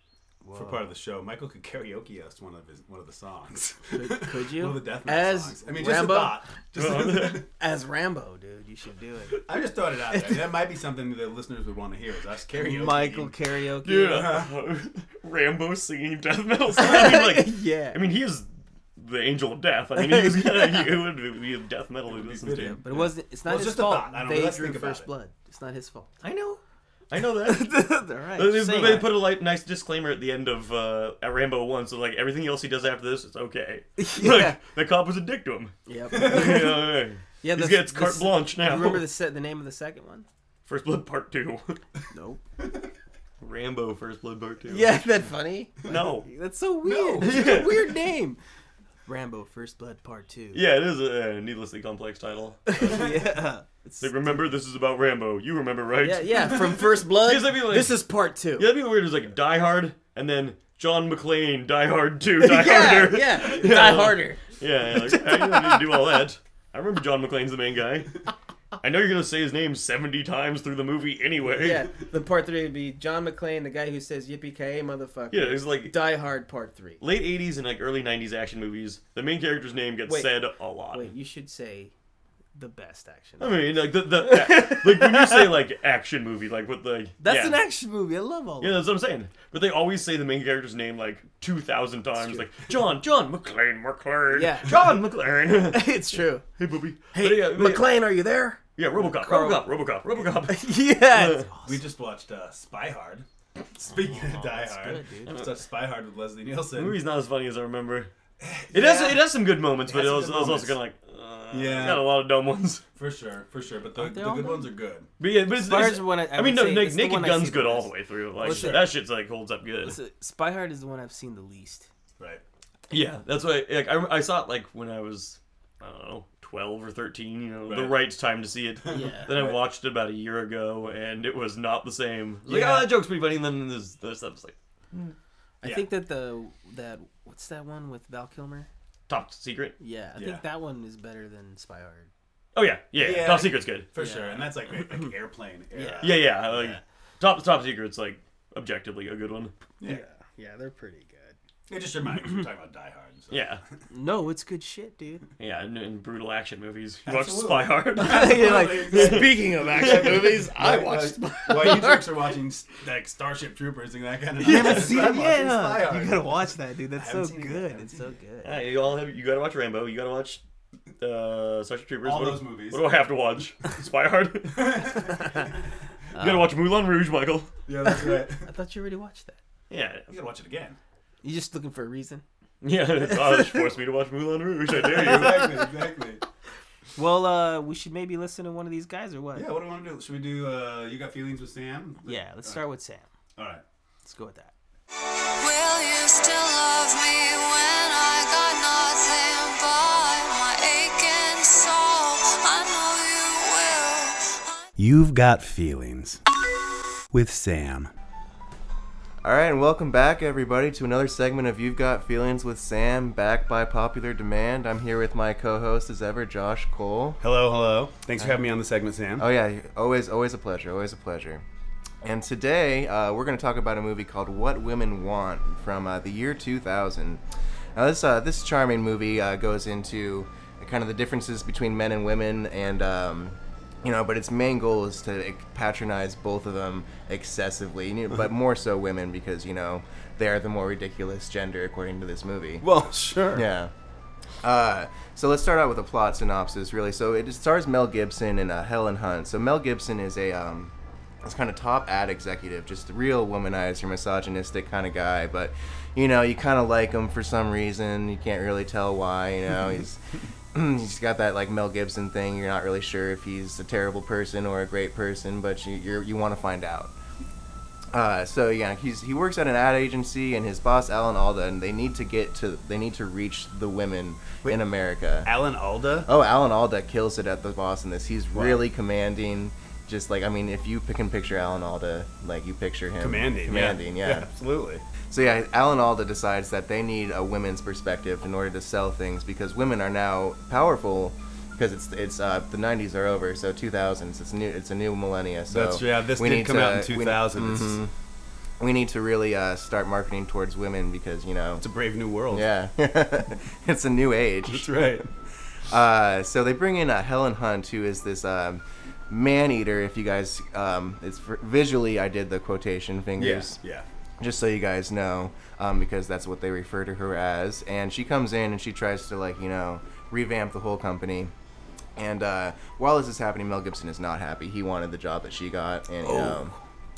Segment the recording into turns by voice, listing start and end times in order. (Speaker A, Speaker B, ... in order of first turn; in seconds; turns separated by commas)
Speaker A: 0.4-0.9, Speaker B: 0.4-7.5, Speaker A: 3.9-6.4, Speaker C: 6.7-7.4, Speaker A: 7.3-9.5, Speaker B: 9.4-13.3, Speaker A: 10.1-10.5, Speaker A: 12.5-14.4, Speaker C: 13.8-22.8, Speaker B: 14.1-14.5, Speaker A: 16.8-18.0, Speaker A: 19.9-20.9, Speaker B: 22.1-25.1, Speaker A: 22.6-26.1, Speaker C: 26.2-39.1, Speaker A: 27.4-29.1, Speaker A: 34.0-34.6, Speaker A: 35.9-36.8, Speaker B: 36.1-36.9, Speaker A: 37.4-40.2, Speaker C: 40.6-41.8, Speaker A: 42.1-42.4, Speaker C: 43.4-45.0, Speaker A: 44.7-48.4, Speaker C: 45.8-46.2, Speaker B: 46.8-47.9, Speaker C: 47.2-47.9, Speaker A: 49.0-50.6, Speaker C: 50.5-53.2, Speaker A: 52.7-54.3, Speaker C: 54.0-68.2, Speaker A: 56.0-58.7, Speaker A: 62.4-66.2, Speaker C: 68.8-71.9, Speaker A: 71.5-77.0, Speaker C: 75.3-76.2, Speaker C: 77.0-81.1, Speaker A: 80.0-80.3, Speaker A: 80.9-81.9, Speaker A: 82.5-85.5, Speaker C: 83.4-87.6, Speaker A: 87.2-88.8, Speaker C: 88.6-97.9, Speaker A: 94.3-95.0, Speaker A: 95.7-96.4, Speaker A: 97.1-99.7, Speaker C: 98.8-101.5, Speaker A: 100.4-101.8, Speaker B: 101.6-107.0, Speaker A: 103.8-105.5, Speaker C: 106.7-108.1, Speaker B: 108.4-109.3, Speaker C: 108.7-112.8, Speaker B: 109.8-110.8, Speaker B: 111.5-112.2, Speaker B: 112.9-115.1, Speaker A: 114.0-114.7, Speaker C: 115.2-120.0, Speaker A: 115.6-118.9, Speaker B: 118.4-118.9, Speaker A: 119.8-121.9, Speaker C: 122.9-134.5, Speaker B: 127.7-128.0, Speaker B: 128.8-129.6, Speaker A: 128.9-129.3, Speaker B: 132.5-132.9, Speaker A: 135.6-138.7, Speaker B: 135.6-135.9, Speaker C: 139.1-139.8, Speaker A: 139.8-142.1, Speaker B: 140.2-140.4, Speaker C: 142.5-143.9, Speaker B: 142.9-146.8, Speaker A: 143.9-145.1, Speaker A: 145.7-146.3, Speaker C: 146.0-149.5, Speaker A: 149.8-151.3, Speaker B: 151.7-153.6, Speaker C: 153.3-153.6, Speaker A: 153.9-155.2, Speaker C: 155.4-160.5, Speaker B: 157.0-168.1, Speaker A: 158.0-162.2, Speaker A: 164.4-168.6, Speaker C: 164.5-165.0, Speaker C: 168.4-170.4, Speaker C: 171.0-175.2, Speaker B: 172.0-172.8, Speaker B: 174.5-175.4, Speaker A: 176.1-176.5, Speaker C: 176.2-177.5, Speaker B: 177.7-178.5, Speaker A: 177.9-179.4, Speaker C: 179.7-180.1, Speaker B: 180.1-180.8, Speaker A: 181.2-182.2, Speaker C: 182.6-185.7, Speaker A: 183.1-183.6, Speaker B: 184.8-186.2, Speaker A: 186.9-189.5, Speaker B: 189.3-192.6, Speaker A: 192.0-193.1, Speaker B: 193.3-193.6, Speaker A: 194.0-194.5, Speaker D: 195.4-204.7, Speaker B: 204.8-206.2, Speaker B: 207.1-207.9, Speaker E: 209.2-217.2, Speaker B: 217.2-219.3, Speaker E: 219.2-221.4, Speaker E: 222.0-227.2, Speaker E: 227.7-242.7, Speaker B: 242.6-243.5, Speaker E: 243.3-243.7, Speaker E: 244.4-260.0, Speaker E: 260.5-266.9, Speaker E: 267.9-275.3, Speaker B: 275.2-276.1, Speaker E: 276.0-284.3, Speaker B: 278.3-278.6, Speaker B: 283.0-284.8, Speaker E: 285.1-297.9, Speaker B: 295.5-297.8, Speaker E: 298.6-301.6, Speaker B: 301.6-302.5, Speaker E: 302.3-304.7, Speaker B: 304.5-305.1, Speaker E: 305.7-313.6, Speaker B: 313.2-313.9, Speaker E: 314.2-321.3, Speaker E: 322.0-326.5, Speaker B: 326.0-326.5